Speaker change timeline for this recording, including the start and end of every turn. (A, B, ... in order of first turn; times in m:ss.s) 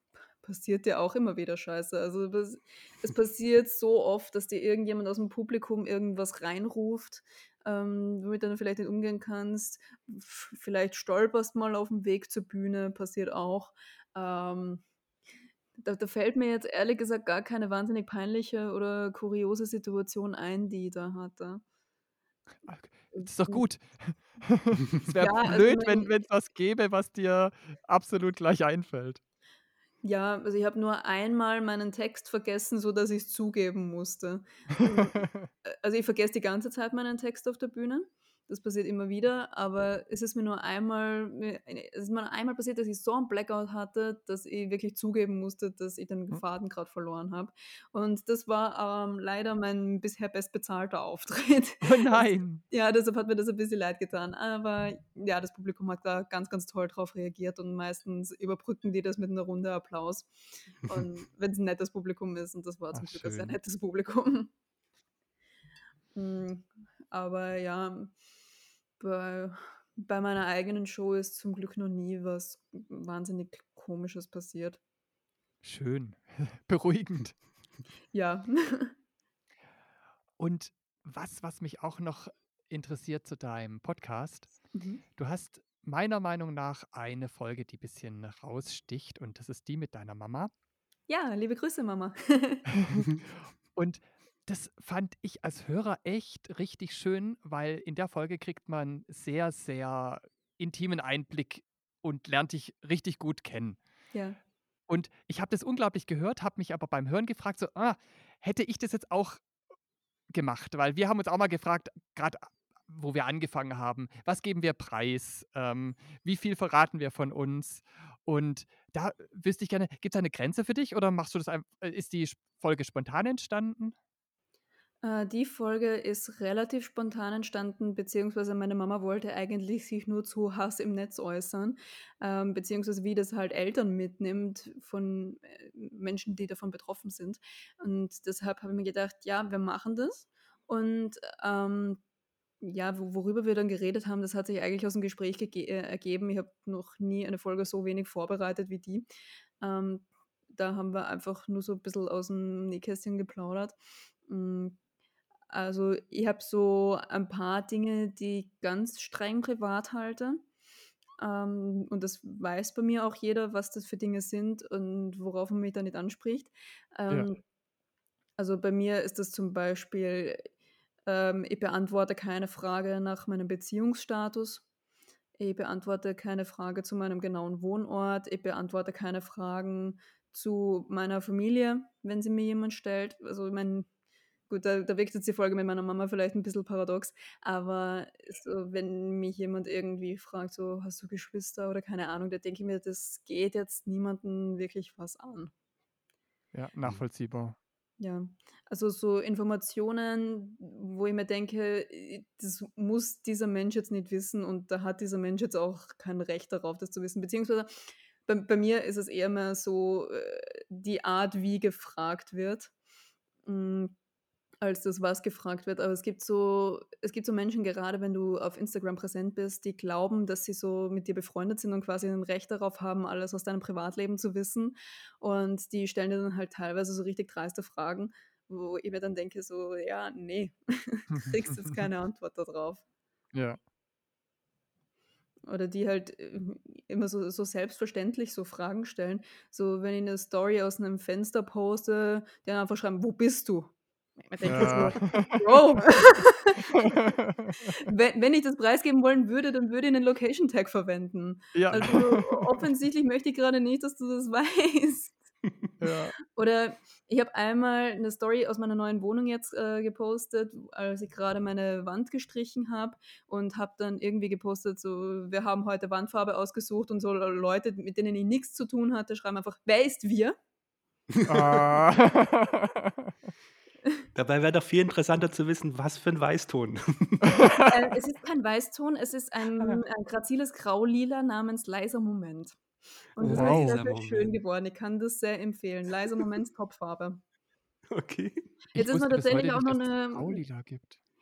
0:00.4-0:14.8 A
0:15.8-0:21.6 A
0:22.7-0:29.2 B
0:23.2-0:23.6 A
0:25.2-0:26.1 A
0:30.0-1:04.5 A
0:34.8-0:35.5 B
0:51.8-0:52.6 B
1:02.9-1:03.6 B
1:06.2-1:08.1 A
1:09.0-1:14.8 A
1:15.6-1:17.4 B
1:18.1-1:18.9 A
1:20.4-1:24.5 B
1:24.7-1:25.0 A
1:25.2-1:30.5 B
1:31.1-1:32.7 A
1:32.8-1:43.8 B
1:44.1-1:44.4 A
1:44.9-1:49.4 B
1:50.3-2:04.0 B
2:05.0-2:22.0 A
2:22.6-2:29.1 A
2:29.6-2:34.8 A
2:35.5-2:40.4 A
2:41.2-2:47.4 A
2:48.4-2:50.5 A
2:51.1-2:54.6 A
2:55.4-3:03.9 A
3:04.5-3:15.5 A
3:16.5-3:17.6 B
3:18.0-3:27.7 A
3:28.3-3:32.7 A
3:33.5-3:34.0 A
3:34.6-3:52.8 A
3:51.2-3:51.8 B
3:53.3-3:53.6 B
3:55.5-4:03.7 A
4:04.2-4:07.0 A
4:04.4-4:05.6 B
4:06.7-4:07.7 B
4:07.7-4:15.2 A
4:11.5-4:12.5 B
4:15.8-4:16.2 B
4:16.3-4:30.4 A
4:31.2-4:33.1 B
4:34.2-4:37.5 C
4:37.2-4:37.7 B
4:37.6-4:42.6 A
4:43.2-4:47.2 A
4:43.2-4:44.4 C
4:43.2-4:43.8 B
4:47.9-4:48.5 C
4:48.8-4:50.4 A
4:48.8-4:51.0 B